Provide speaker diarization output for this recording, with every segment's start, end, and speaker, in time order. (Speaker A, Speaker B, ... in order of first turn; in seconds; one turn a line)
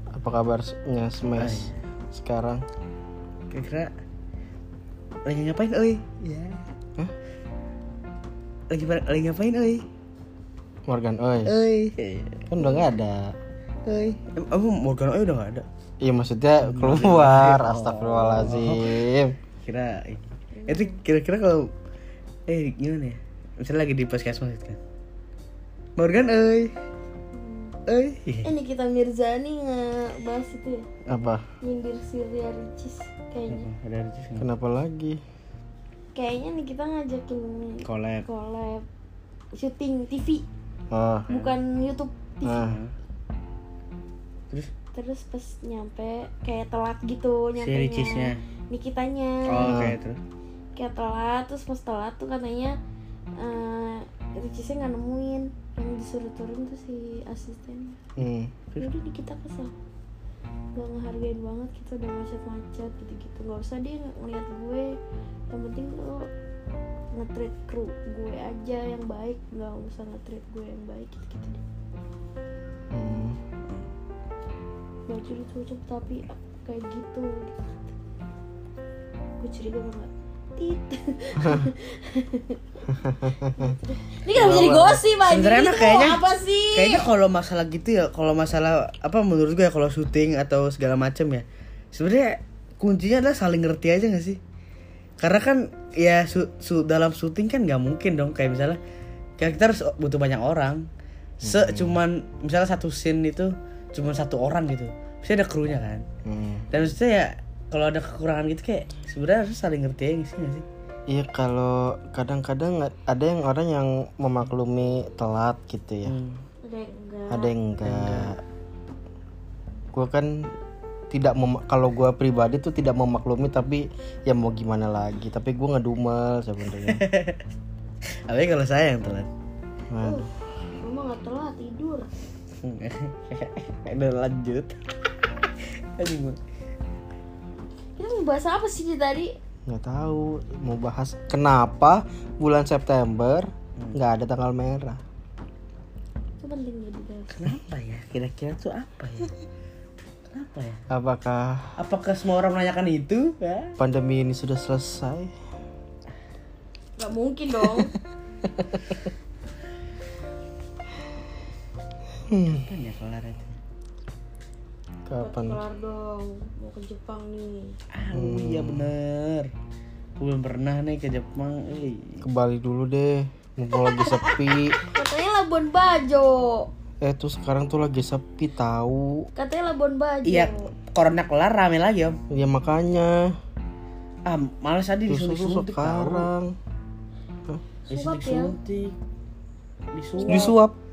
Speaker A: 0.1-2.6
Speaker B: 1.4-1.8
Speaker B: 3.5-3.9
Speaker B: 5.2-6.6
Speaker B: 8.7-9.8
Speaker A: 10.8-11.5
Speaker B: 11.4-12.4
Speaker A: 12.5-13.3
Speaker C: 12.6-12.9
Speaker B: 13.8-15.7
Speaker A: 16.0-19.4
Speaker B: 16.6-18.9
Speaker B: 19.6-21.7
Speaker C: 20.5-21.0
Speaker B: 22.5-24.8
Speaker B: 26.0-26.7
Speaker C: 27.3-27.8
Speaker B: 27.9-28.5
Speaker C: 28.4-30.9
Speaker A: 31.1-31.4
Speaker C: 31.6-33.7
Speaker B: 33.5-34.5
Speaker A: 34.4-35.2
Speaker C: 36.1-38.8
Speaker B: 37.8-38.2
Speaker C: 39.5-40.5
Speaker A: 40.9-41.3
Speaker C: 41.3-42.7
Speaker A: 42.4-42.8
Speaker B: 42.5-42.9
Speaker C: 44.9-49.8
Speaker B: 47.6-48.4
Speaker B: 49.5-50.2
Speaker A: 49.6-50.0
Speaker C: 50.8-52.8
Speaker C: 53.4-58.0
Speaker A: 58.2-58.5
Speaker C: 58.8-59.7
Speaker C: 60.8-64.9
Speaker C: 65.5-66.3
Speaker C: 67.1-71.6
Speaker A: 72.9-73.4
Speaker C: 75.1-77.9
Speaker C: 79.4-82.6
Speaker A: 81.4-81.7
Speaker A: 82.9-83.8
Speaker C: 83.5-87.0
Speaker A: 84.3-85.0
Speaker B: 85.2-86.2
Speaker B: 86.7-94.4
Speaker B: 95.2-98.8
Speaker B: 99.4-100.8
Speaker A: 101.4-102.0
Speaker B: 101.4-106.0
Speaker A: 106.2-106.7
Speaker B: 106.7-110.7
Speaker A: 111.1-116.2
Speaker B: 116.1-116.4
Speaker C: 116.6-117.5
Speaker A: 117.3-118.4
Speaker B: 117.8-118.3
Speaker A: 119.9-120.5
Speaker A: 121.1-127.0
Speaker B: 126.8-127.4
Speaker B: 128.3-129.3
Speaker A: 129.9-130.3
Speaker C: 130.0-130.3
Speaker C: 130.8-132.1
Speaker B: 132.6-134.8
Speaker B: 135.4-136.4
Speaker C: 138.0-139.3
Speaker A: 139.7-145.0
Speaker C: 146.4-147.4
Speaker B: 147.3-149.3
Speaker B: 150.3-150.8
Speaker A: 150.9-151.8
Speaker B: 151.8-153.8
Speaker A: 153.8-155.3
Speaker C: 157.0-157.9
Speaker A: 158.5-158.9
Speaker A: 162.3-162.6
Speaker B: 162.4-163.6
Speaker A: 165.1-165.6
Speaker C: 165.2-167.8
Speaker B: 167.9-169.5
Speaker A: 168.1-168.9
Speaker B: 170.2-172.2
Speaker A: 172.2-174.8
Speaker C: 173.7-176.7
Speaker A: 177.0-179.3
Speaker C: 179.3-180.7
Speaker B: 180.2-182.2
Speaker A: 182.3-183.3
Speaker B: 184.2-186.3
Speaker A: 185.1-186.5
Speaker C: 187.9-188.6
Speaker B: 187.9-188.9
Speaker B: 189.9-190.5
Speaker C: 190.2-190.5
Speaker A: 190.3-190.8